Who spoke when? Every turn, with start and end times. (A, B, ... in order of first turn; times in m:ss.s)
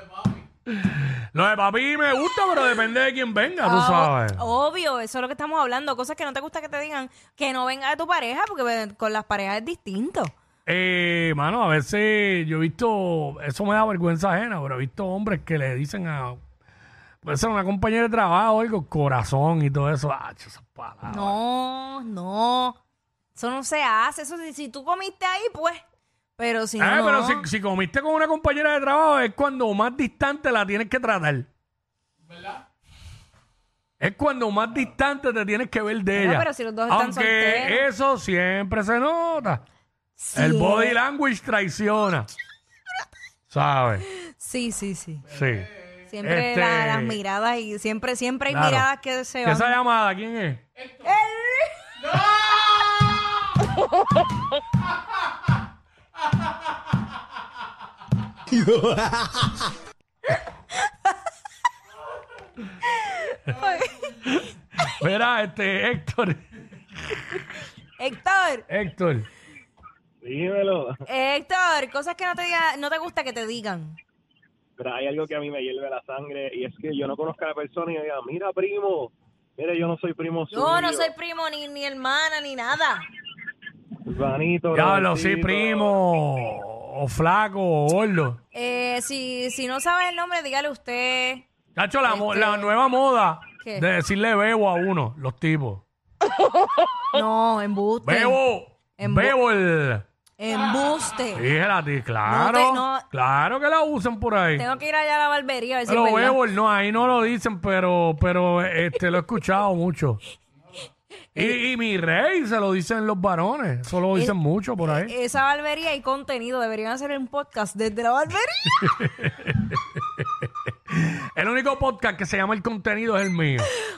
0:00.7-0:04.4 A
0:03.6-0:10.3 B
0:10.7-0:16.4 A
0:17.2-0:21.4 A
0:21.1-0:22.8 B
0:23.4-0:25.8 B
0:26.4-0:27.4 B
0:26.8-0:31.5 A
0:34.0-0:39.6 A
0:36.1-0:37.9 B
0:40.2-0:41.0 B
0:40.3-0:42.3 A
0:43.5-0:44.1 A
0:44.3-0:45.2 B
0:45.3-0:45.7 A
0:46.1-0:49.8 B
0:46.2-0:47.2 A
0:48.5-0:48.9 A
0:49.4-0:50.6 A
0:51.0-0:51.8 B
1:03.4-1:04.1 B
1:04.3-1:06.4 A
1:08.0-1:08.7 B
1:08.7-1:09.3 A
1:10.2-1:10.9 C
1:11.1-1:14.0 B
1:14.8-1:21.1 C
1:20.5-1:23.1 B
1:24.0-1:26.0 C
1:24.7-1:28.4 A
1:28.5-1:31.4 B
1:31.8-1:35.8 A
1:32.1-1:32.7 B
1:33.6-1:33.9 B
1:37.1-1:38.4 B
1:38.0-1:40.0 A
1:39.0-1:39.4 B
1:40.4-1:41.5 B
1:41.3-1:44.7 A
1:42.3-1:43.0 B
1:44.6-1:46.4 B
1:45.9-1:50.2 A
1:51.4-1:55.1 A
1:54.9-1:58.9 B
1:58.8-2:00.3 A
2:00.9-2:03.7 A